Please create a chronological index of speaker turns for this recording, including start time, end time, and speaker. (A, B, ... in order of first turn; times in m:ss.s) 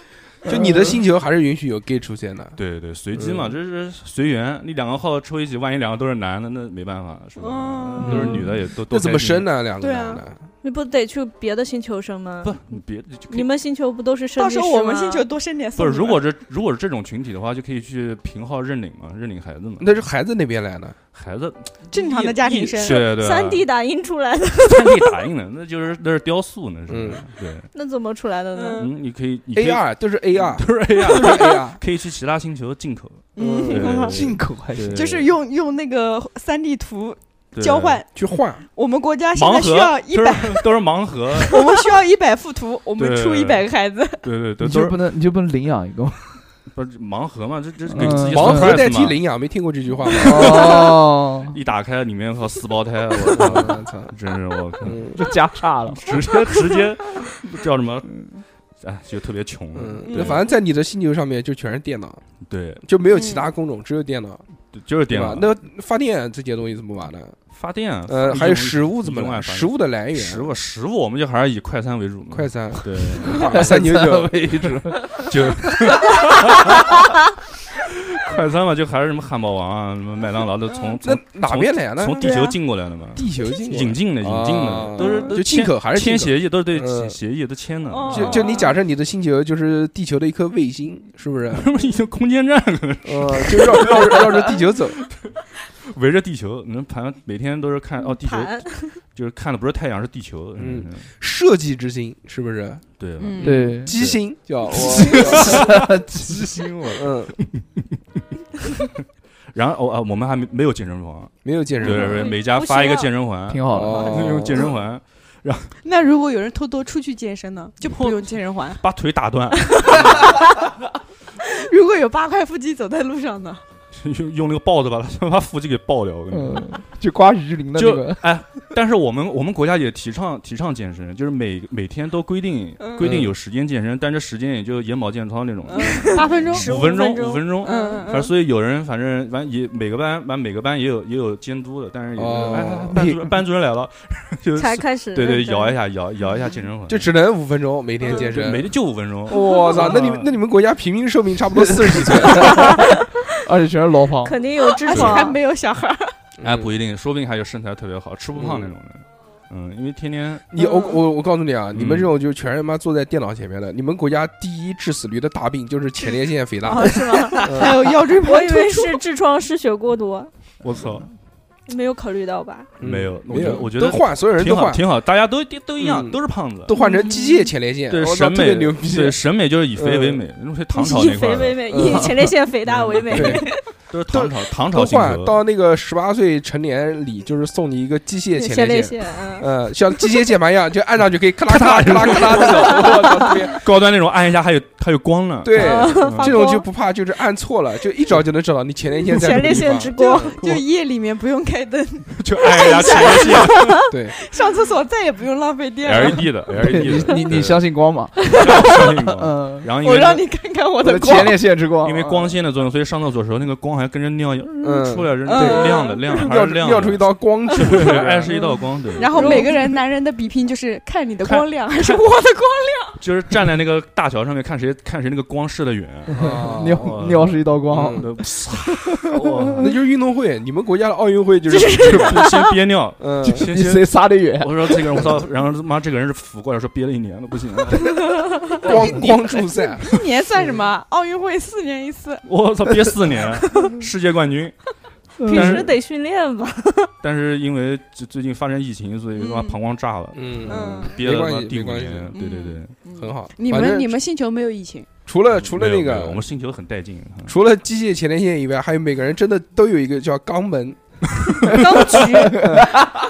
0:00.4-0:02.6 A
0:02.6-0:09.5 B
0:03.1-0:03.6 A
0:07.4-0:08.3 C
0:08.0-0:10.4 A
0:08.1-0:08.5 D
0:09.8-0:10.2 C
0:10.6-0:12.6 E
0:12.4-0:13.5 B
0:13.3-0:15.3 E
0:14.4-0:16.2 C
0:15.8-0:19.9 B
0:19.8-0:21.0 A
0:21.1-0:23.7 B
0:21.9-0:23.1 C
0:22.8-0:25.2 E
0:24.6-0:27.7 B
0:26.9-0:27.2 A
0:27.7-0:28.9 E
0:28.6-0:28.9 C
0:28.8-0:35.3 B
0:29.5-0:31.8 A
0:33.4-0:33.8 C
0:33.4-0:34.1 A
0:33.7-0:34.2 E
0:34.1-0:35.0 D
0:34.9-0:38.1 C
0:37.5-0:38.0 B
0:38.2-0:38.6 A
0:38.8-0:40.7 C
0:39.3-0:41.6 B
0:41.4-0:44.2 C
0:43.0-0:43.6 B
0:44.2-0:45.0 B
0:44.6-0:46.4 D
0:46.7-0:49.2 B
0:47.9-0:48.8 D
0:48.3-0:50.8 A
0:50.2-0:50.9 B
0:50.2-0:51.6 D
0:51.5-0:55.1 B
0:53.3-0:54.1 A
0:54.8-0:55.2 A
0:55.1-0:56.0 D
0:55.9-0:58.3 B
0:58.8-1:00.4 B
0:59.7-1:02.2 A
1:00.1-1:00.4 C
1:02.5-1:02.8 B
1:02.8-1:04.4 A
1:03.1-1:03.4 C
1:04.7-1:05.5 B
1:05.1-1:07.4 A
1:07.5-1:13.8 B
1:08.1-1:10.5 A
1:12.3-1:14.8 A
1:13.4-1:15.7 D
1:15.2-1:17.0 B
1:18.1-1:28.6 B
1:20.7-1:21.0 C
1:21.0-1:22.2 A
1:22.2-1:22.6 C
1:23.2-1:27.2 A
1:25.0-1:25.3 C
1:27.9-1:28.8 C
1:28.1-1:31.7 A
1:31.5-1:34.5 B
1:33.0-1:35.0 A
1:35.9-1:41.1 B
1:38.0-1:39.0 E
1:40.6-1:42.9 A
1:43.0-1:44.2 B
1:43.2-1:43.7 C
1:43.4-1:45.7 A
1:43.4-1:44.0 D
1:44.7-1:47.8 B
1:45.5-1:46.4 D
1:47.0-1:47.3 A
1:49.5-1:55.7 B
1:51.4-1:52.3 A
1:51.8-1:53.1 E
1:53.5-1:54.4 D
1:53.7-1:54.6 A
1:55.8-1:58.8 C
1:57.8-2:00.4 B
1:59.7-2:00.6 C
2:01.4-2:03.6 C
2:03.9-2:06.8 B
2:06.3-2:08.2 D
2:07.8-2:27.1 B
2:12.8-2:13.1 C
2:13.0-2:13.3 A
2:15.7-2:16.9 C
2:15.8-2:18.1 E
2:17.6-2:18.3 C
2:22.2-2:23.1 A
2:22.9-2:23.2 D
2:24.6-2:25.8 E
2:26.9-2:28.7 A
2:28.0-2:28.3 C
2:28.1-2:30.3 B
2:29.3-2:32.8 A
2:29.3-2:30.0 C
2:32.6-2:32.9 E
2:33.4-2:34.4 D
2:34.2-2:35.4 E
2:34.6-2:36.2 C
2:34.9-2:35.2 B
2:36.4-2:36.7 A
2:36.4-2:40.4 B
2:38.4-2:38.7 A
2:40.5-2:47.8 A
2:40.6-2:41.0 C
2:41.7-2:42.1 B
2:46.0-2:49.0 C
2:46.8-2:50.3 E
2:50.6-2:51.1 B
2:51.7-2:52.7 E
2:52.8-2:54.8 A
2:52.8-2:56.8 B
2:55.8-2:59.2 A
2:56.8-2:57.5 C
2:57.9-3:02.0 B
2:59.8-3:00.2 A
3:00.7-3:03.6 E
3:01.7-3:02.3 A
3:02.7-3:05.4 B
3:03.1-3:03.5 A
3:04.1-3:13.6 A
3:08.4-3:09.5 E
3:11.5-3:13.0 B
3:12.5-3:13.3 E
3:13.6-3:16.4 B
3:15.4-3:20.4 A
3:15.5-3:16.6 E
3:19.1-3:20.4 E
3:20.0-3:26.3 C
3:22.2-3:23.8 B
3:23.5-3:23.9 E
3:23.9-3:24.2 A
3:25.8-3:27.7 B
3:26.6-3:29.7 D
3:28.2-3:30.3 B
3:29.8-3:31.4 C
3:30.8-3:32.4 D
3:31.0-3:39.5 B
3:34.6-3:38.3 A
3:35.2-3:36.3 C
3:37.5-3:43.0 C
3:39.1-3:39.6 E
3:41.2-3:42.0 B
3:43.0-3:49.8 B
3:46.2-3:47.1 A
3:46.2-3:49.6 D
3:47.7-3:48.1 A
3:49.6-3:52.3 A
3:51.5-3:52.5 E
3:51.8-3:58.0 B
3:53.0-3:53.4 A
3:53.4-3:54.8 D
3:58.0-3:58.6 E
3:58.6-3:59.9 A
3:59.8-4:02.2 C
4:02.2-4:04.6 B
4:05.2-4:05.7 D
4:05.3-4:05.7 B
4:05.3-4:06.9 E
4:05.3-4:05.6 C
4:07.0-4:12.8 B
4:09.2-4:09.6 C
4:10.2-4:12.1 A
4:10.5-4:11.0 C
4:12.1-4:14.9 C
4:12.9-4:14.0 A
4:15.1-4:16.2 A
4:15.4-4:17.4 B
4:17.2-4:20.8 A
4:21.5-4:22.6 C
4:21.9-4:22.3 E
4:22.2-4:22.9 D